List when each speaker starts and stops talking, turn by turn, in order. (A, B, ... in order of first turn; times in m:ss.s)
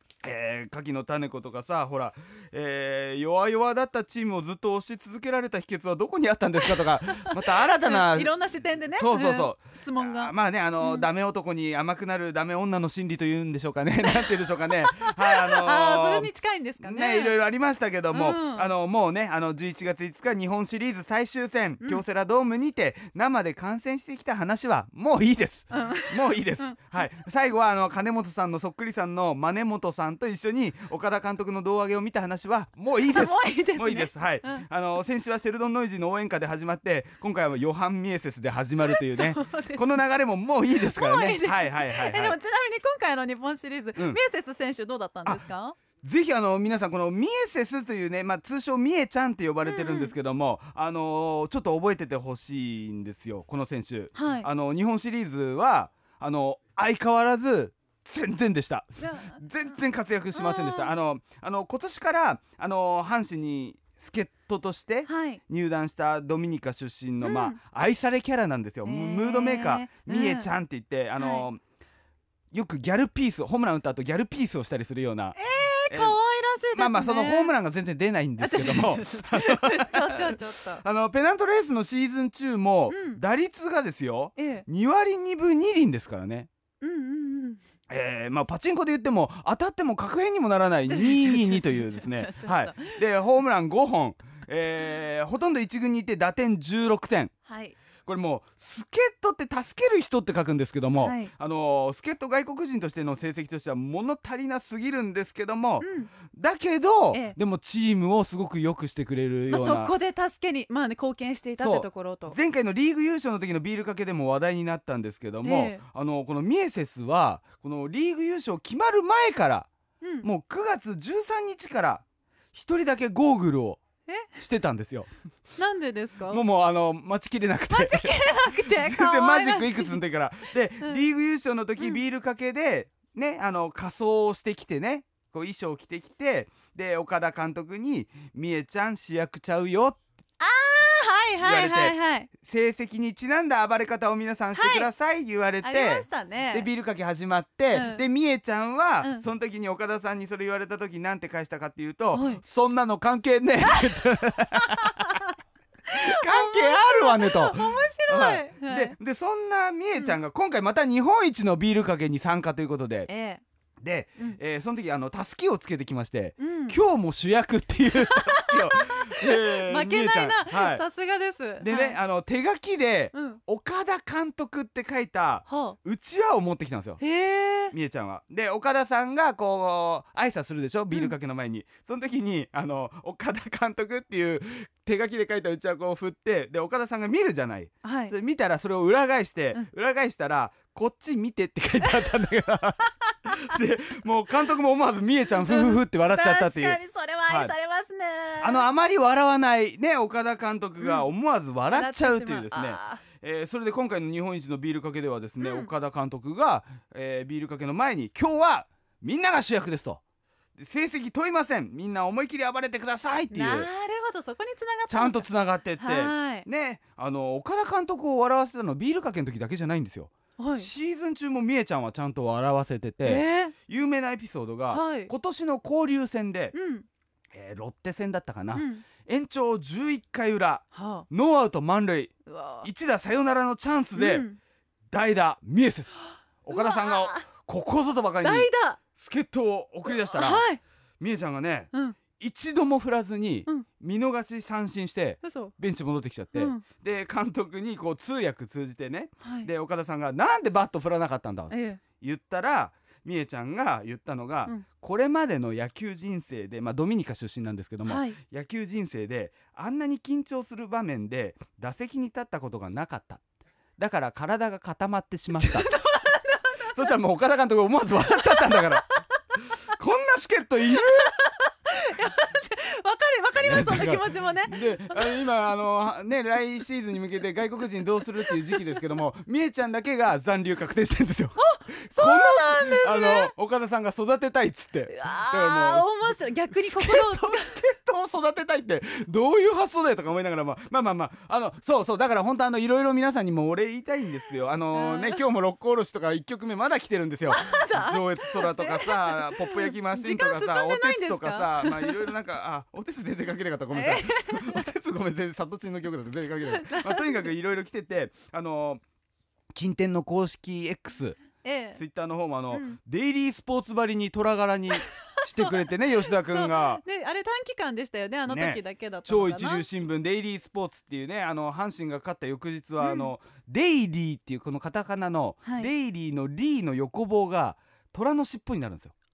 0:00.2-0:08.3 A
0:06.7-0:11.1 B
0:08.9-0:16.3 A
0:14.3-0:17.3 B
0:16.8-0:42.4 A
0:18.1-0:18.7 B
0:25.7-0:26.8 B
0:33.0-0:34.6 B
0:38.9-0:39.9 B
0:40.7-0:45.8 B
0:46.0-1:11.6 A
0:49.6-0:50.1 B
0:54.1-0:54.5 B
0:59.0-0:59.8 B
1:00.3-1:00.9 B
1:05.0-1:05.4 B
1:07.2-1:07.6 B
1:08.8-1:10.5 B
1:11.2-1:11.5 B
1:12.5-1:15.4 A
1:15.3-1:17.5 B
1:15.9-1:16.2 A
1:16.7-1:26.5 A
1:18.4-1:20.8 B
1:22.9-1:23.2 B
1:24.4-1:24.6 B
1:26.8-1:27.6 B
1:27.9-1:37.3 A
1:30.8-1:33.0 B
1:37.5-1:37.8 B
1:38.0-1:49.9 A
1:41.0-1:41.3 B
1:45.8-1:46.1 B
1:47.1-1:47.4 B
1:49.5-1:52.4 B
1:51.6-1:59.7 A
1:55.4-1:55.8 B
2:00.0-2:00.3 B
2:00.2-2:03.8 A
2:04.3-2:05.1 A
2:05.6-2:06.4 B
2:06.3-2:20.0 A
2:07.7-2:10.0 B
2:20.4-2:22.3 B
2:21.4-2:35.1 A
2:24.5-2:24.9 B
2:25.6-2:26.7 B
2:27.7-2:28.0 B
2:32.1-2:32.4 B
2:33.7-2:34.0 B
2:34.5-2:35.3 B
2:35.9-2:38.9 B
2:35.9-2:43.1 A
2:43.1-2:43.4 B
2:43.8-2:50.8 A
2:46.4-2:46.8 B
2:48.0-2:52.0 B
2:51.6-2:57.0 A
2:53.1-2:53.4 B
2:55.5-2:55.8 B
2:57.0-2:57.7 B
2:57.7-3:17.5 A
3:07.8-3:08.1 B
3:15.4-3:18.6 B
3:18.4-3:30.0 A
3:20.8-3:21.1 B
3:21.7-3:23.0 B
3:25.4-3:25.7 B
3:30.6-3:33.7 A
3:33.3-3:35.2 B
3:34.9-3:46.5 A
3:35.8-3:36.4 B
3:40.4-3:40.7 B
3:43.0-3:43.5 B
3:44.7-3:45.1 B
3:46.5-3:46.8 B
3:47.3-3:54.3 A
3:48.5-3:48.8 B
3:50.7-3:51.1 B
3:52.3-3:52.7 B
3:53.9-3:54.4 B
3:54.9-4:00.5 A
3:56.5-3:57.2 B
3:58.2-3:58.8 B
3:59.9-4:00.6 B
4:01.0-4:23.2 A
4:01.7-4:02.0 B
4:05.2-4:05.5 B
4:06.3-4:06.6 B
4:09.2-4:09.5 B
4:11.5-4:11.8 B
4:17.8-4:18.2 B
4:23.8-4:25.7 A
4:25.3-4:26.8 B
4:26.6-4:28.8 A
4:28.1-4:29.0 B
4:29.7-4:31.1 A
4:30.8-4:35.2 B
4:33.4-5:08.8 A
4:41.4-4:43.3 B
4:44.9-4:47.6 B
4:54.7-4:55.2 B
4:57.3-5:02.1 B
5:03.7-5:04.7 B
5:06.5-5:07.3 B
5:09.5-5:11.2 A
5:11.4-5:11.8 B
5:11.8-5:16.8 A
5:12.5-5:12.8 B
5:15.2-5:19.6 B
5:18.3-5:28.9 A
5:22.8-5:23.1 B
5:25.4-5:25.7 B